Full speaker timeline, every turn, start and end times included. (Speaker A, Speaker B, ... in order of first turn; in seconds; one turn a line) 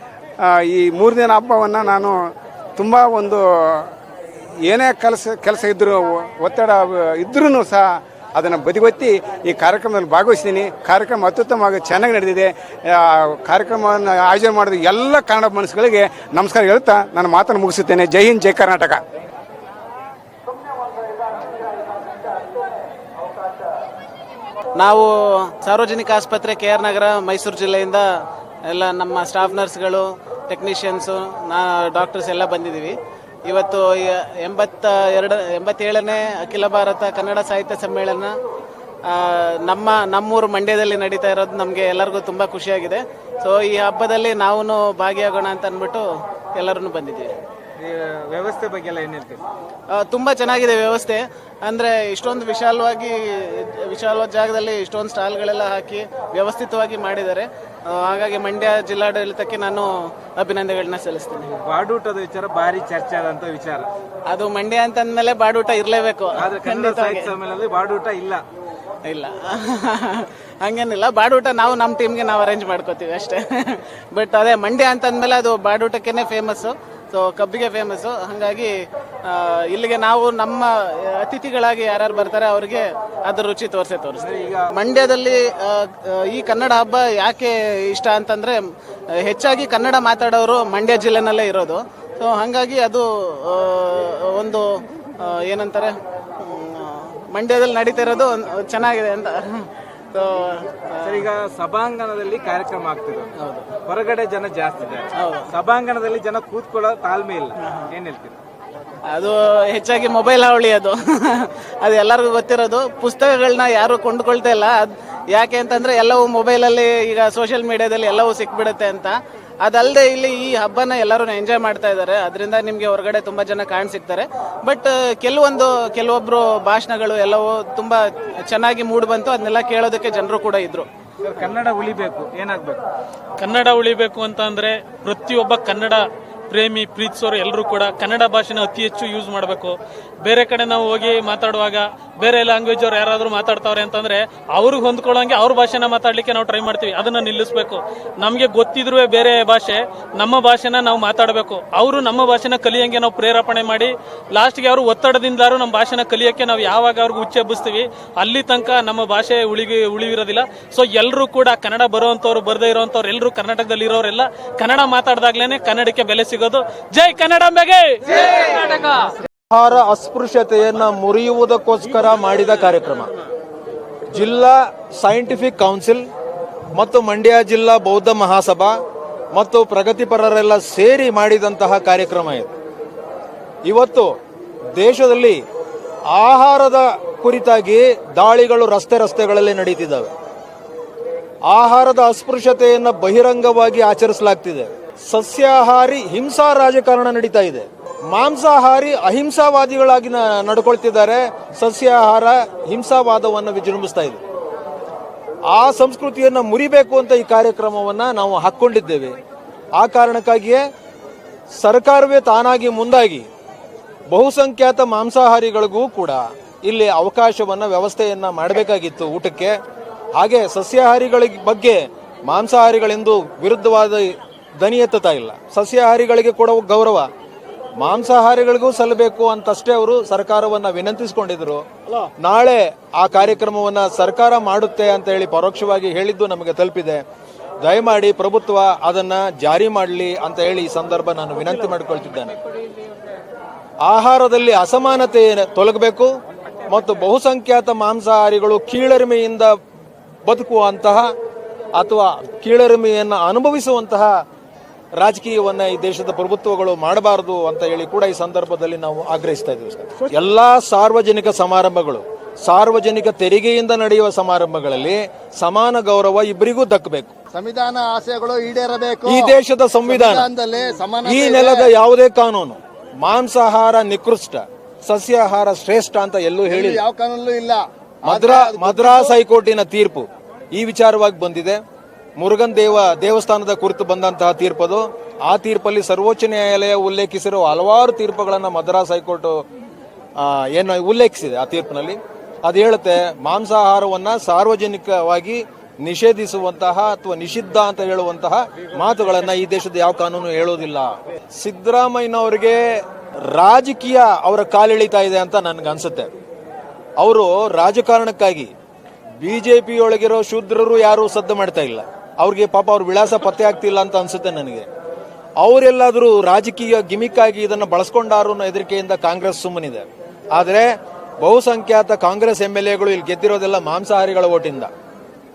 Speaker A: 0.4-2.2
Speaker A: 2.8-3.9
Speaker A: 4.7-7.8
Speaker A: 8.3-19.0
Speaker B: 24.8-28.1
Speaker B: 28.7-32.9
Speaker B: 33.5-38.3
Speaker B: 39.1-46.0
Speaker B: 46.6-47.3
Speaker C: 47.8-49.4
Speaker B: 49.9-61.5
Speaker C: 61.5-63.9
Speaker B: 64.3-67.3
Speaker C: 66.3-68.4
Speaker B: 69.1-78.7
Speaker B: 79.3-84.2
Speaker C: 84.2-84.7
Speaker B: 84.8-88.6
Speaker B: 89.2-94.7
Speaker B: 95.2-101.3
Speaker C: 101.0-108.4
Speaker B: 103.4-103.7
Speaker B: 109.1-130.9
Speaker C: 131.2-132.8
Speaker D: 133.4-169.0
Speaker E: 169.5-173.1
Speaker E: 174.1-176.1
Speaker E: 176.8-178.8
Speaker E: 179.3-182.5
Speaker E: 183.7-184.2
Speaker E: 184.8-185.4
Speaker E: 186.1-190.1
Speaker E: 191.5-204.2
Speaker E: 205.5-209.2
Speaker E: 209.8-210.6
Speaker E: 211.6-213.3
Speaker E: 214.1-219.6
Speaker E: 220.2-227.1
Speaker E: 227.8-231.7
Speaker E: 232.2-237.0
Speaker E: 237.6-242.3
Speaker E: 243.8-246.1
Speaker E: 246.7-249.5
Speaker E: 250.3-251.1
Speaker E: 251.8-254.2
Speaker E: 255.0-267.1
Speaker F: 267.3-269.3
Speaker E: 269.1-270.3
Speaker F: 269.9-271.7
Speaker E: 271.1-276.8
Speaker F: 276.5-279.1
Speaker E: 278.1-281.6
Speaker E: 282.2-289.4
Speaker E: 290.2-306.1
Speaker E: 307.0-308.5
Speaker E: 309.2-314.7
Speaker E: 315.4-324.7